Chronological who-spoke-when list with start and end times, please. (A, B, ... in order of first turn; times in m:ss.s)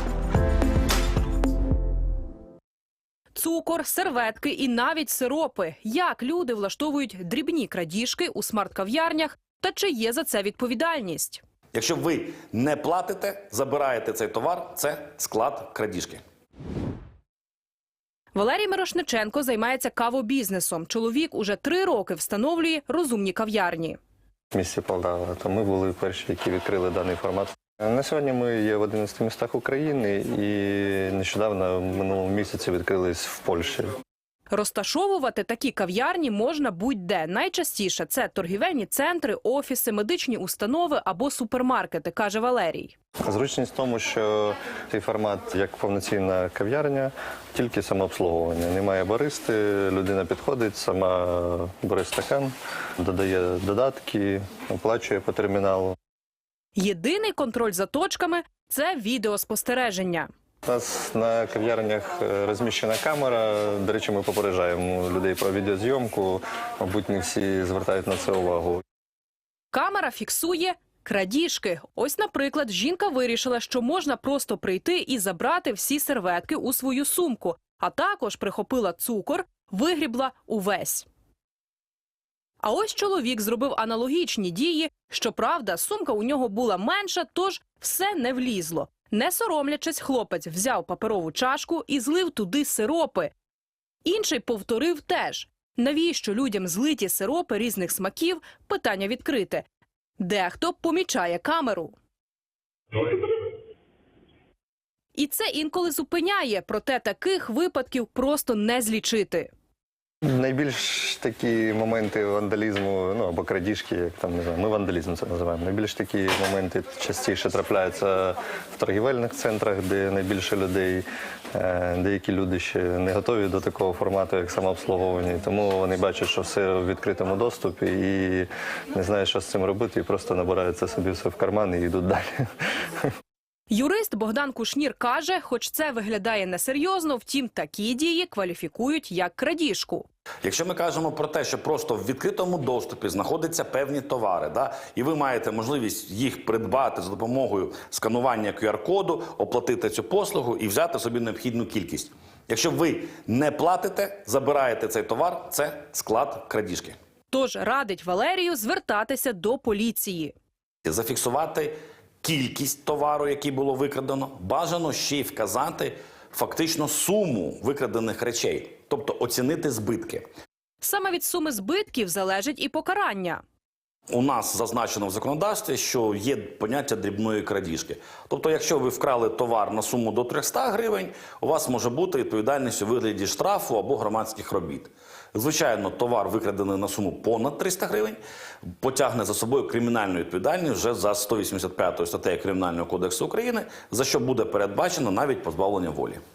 0:03.3-0:11.4 A
0:11.7-0:16.2 B
0:18.3-0:24.0 A
0:24.5-0:33.9 C
0:34.5-0:43.0 A
0:43.2-0:56.0 C
0:56.8-1:00.3 A
1:00.7-1:08.8 C
1:09.7-1:21.1 A
1:22.6-1:33.3 A
1:34.0-1:39.6 A
1:40.2-1:42.0 A
1:45.1-1:49.5 A
1:50.2-2:12.4 C
2:13.7-2:20.1 A
2:20.4-2:37.0 B
2:37.3-2:40.3 A
2:40.8-2:50.3 B
2:50.8-2:53.4 A
2:54.1-3:08.2 B
3:08.8-3:16.2 B